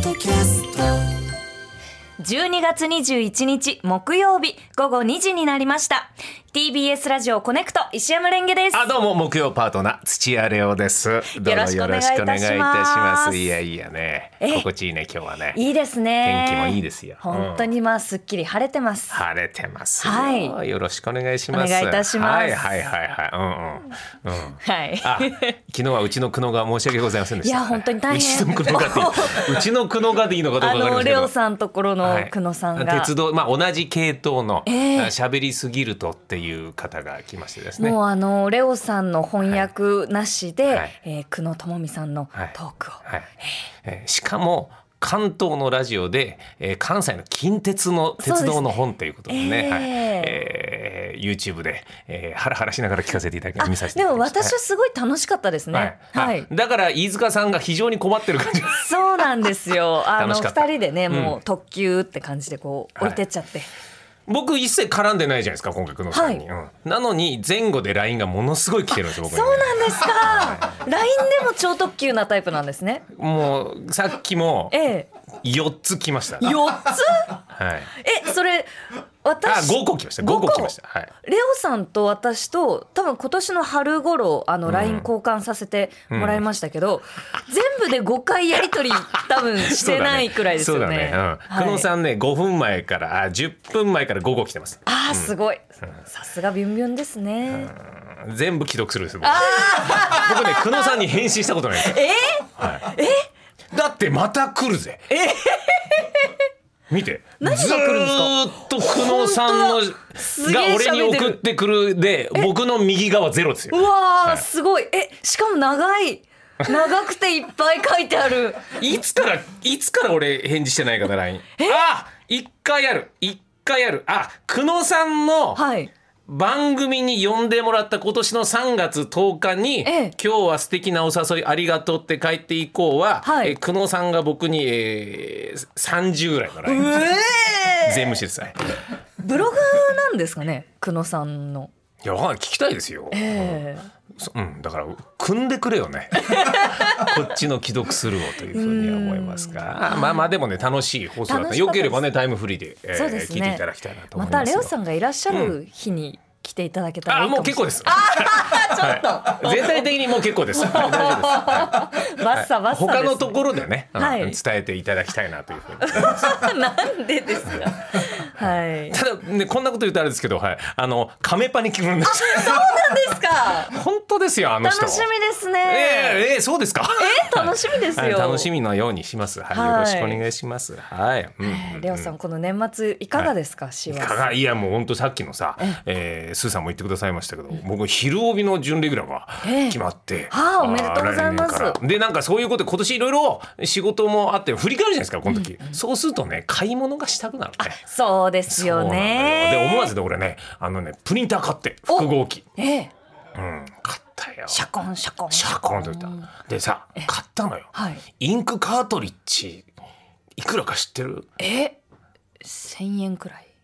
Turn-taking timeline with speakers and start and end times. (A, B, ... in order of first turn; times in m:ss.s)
0:02.2-0:08.9 A
0:08.7-0:15.6 B
0:11.3-0:13.6 A
0:14.4-0:14.7 A
0:15.5-0:19.2 A
0:16.2-0:17.7 B
0:19.1-0:31.3 B
0:20.0-0:20.6 A
0:21.5-0:22.9 A
0:24.6-0:25.5 A
0:27.4-0:29.7 A
0:30.6-0:33.1 A
0:32.0-0:38.0 B
0:34.6-0:35.1 A
0:37.8-0:43.6 A
0:40.7-0:40.9 B
0:43.8-0:54.5 B
0:48.2-0:50.4 A
0:53.6-0:56.5 A
0:55.7-0:58.9 B
0:58.7-1:03.7 A
1:00.2-1:01.4 B
1:04.3-1:10.8 B
1:06.1-1:06.4 A
1:09.1-1:13.0 A
1:13.2-1:14.8 B
1:14.7-1:15.1 A
1:15.4-1:16.6 B
1:16.4-1:17.4 A
1:17.5-1:17.9 B
1:18.0-1:18.7 A
1:19.2-1:31.9 A
1:19.4-1:21.1 B
1:24.6-1:25.1 B
1:26.1-1:26.4 B
1:29.1-1:35.3 B
1:34.8-1:37.7 A
1:37.5-1:42.0 B
1:39.2-1:41.0 A
1:41.8-1:43.2 A
1:42.6-1:42.9 B
1:43.7-1:45.2 B
1:45.1-1:46.4 A
1:46.9-1:54.4 B
1:47.4-1:51.4 A
1:53.7-1:58.7 A
1:58.7-2:05.6 B
2:05.5-2:05.9 A
2:06.3-2:17.2 B
2:09.8-2:10.1 A
2:13.2-2:13.6 A
2:16.7-2:18.2 A
2:17.8-2:18.6 B
2:19.2-2:21.7 A
2:22.0-2:23.6 B
2:23.1-2:23.9 A
2:24.2-2:34.7 B
2:26.2-2:27.2 A
2:28.5-2:30.3 A
2:31.2-2:32.0 A
2:32.9-2:39.9 A
2:35.3-2:35.5 B
2:37.1-2:46.4 B
2:40.5-2:44.4 A
2:45.8-2:49.0 A
2:48.4-2:52.8 B
2:52.0-2:53.8 A
2:53.7-2:55.1 B
2:54.6-2:56.2 A
2:55.6-3:02.1 B
2:57.0-2:58.5 A
2:59.5-3:00.2 A
3:01.4-3:04.4 A
3:03.9-3:17.8 B
3:09.4-3:09.8 A
3:10.3-3:11.8 A
3:15.3-3:15.8 A
3:17.6-3:19.9 A
3:18.5-3:22.4 B
3:21.9-3:22.9 A
3:23.4-3:24.6 B
3:24.5-3:26.3 A
3:25.3-3:29.7 B
3:27.7-3:28.0 A
3:30.4-3:31.2 B
3:31.4-3:31.8 A
3:32.4-3:33.5 A